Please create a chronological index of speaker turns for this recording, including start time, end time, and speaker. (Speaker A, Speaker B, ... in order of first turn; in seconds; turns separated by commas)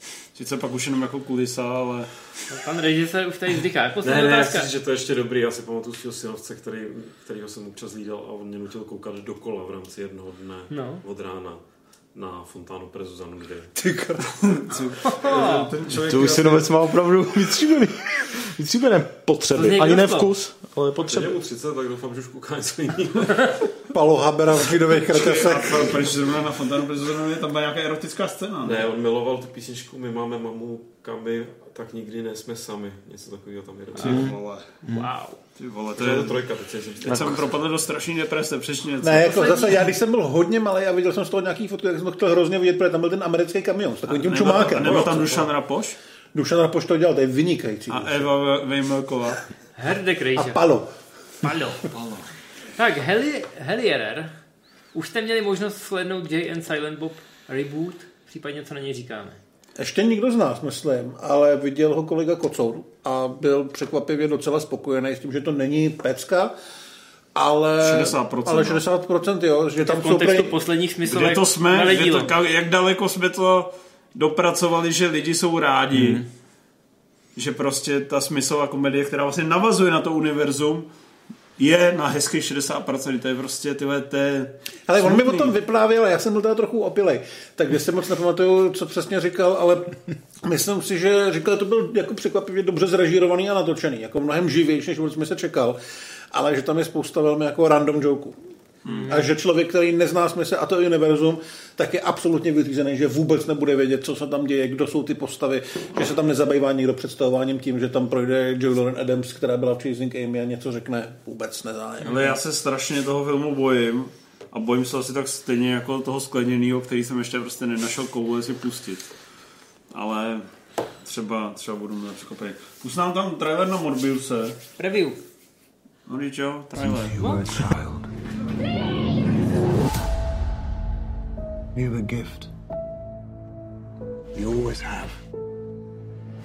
Speaker A: 0.3-2.3, Speaker B: 2.5-4.7, Speaker C: 4.0-13.7, Speaker B: 10.7-11.0, Speaker D: 13.8-14.3, Speaker A: 14.4-16.7, Speaker B: 15.1-15.7, Speaker C: 15.2-16.5, Speaker E: 16.1-21.3, Speaker B: 19.5-20.3, Speaker C: 21.0-23.6, Speaker D: 23.9-26.0, Speaker A: 25.1-28.8, Speaker C: 28.6-34.2, Speaker B: 33.9-34.3, Speaker A: 34.0-34.7, Speaker E: 34.0-34.3, Speaker B: 34.8-35.4, Speaker E: 34.9-35.1, Speaker A: 35.6-36.4, Speaker C: 35.9-37.5, Speaker A: 37.0-39.6, Speaker D: 39.0-45.5, Speaker B: 39.3-39.7, Speaker A: 44.1-46.0, Speaker D: 46.3-48.3, Speaker A: 47.9-49.4, Speaker B: 49.8-50.6, Speaker D: 50.4-50.9, Speaker B: 51.4-51.8, Speaker C: 51.9-52.2, Speaker B: 52.8-54.3, Speaker B: 54.9-59.4, Speaker D: 59.8-66.5, Speaker D: 67.3-70.5, Speaker A: 67.8-68.8, Speaker B: 69.8-72.3, Speaker A: 71.0-76.2, Speaker E: 75.9-76.2, Speaker A: 77.3-80.9, Speaker A: 81.6-85.5, Speaker D: 84.9-95.8, Speaker D: 96.3-98.4, Speaker B: 98.9-99.3, Speaker D: 99.0-112.4, Speaker A: 112.0-119.0, Speaker A: 119.9-120.5, Speaker A: 121.0-124.6, Speaker B: 124.8-125.2, Speaker A: 126.1-127.2, Speaker F: 126.8-128.1, Speaker B: 127.2-127.4, Speaker F: 131.7-132.5, Speaker F: 134.3-135.2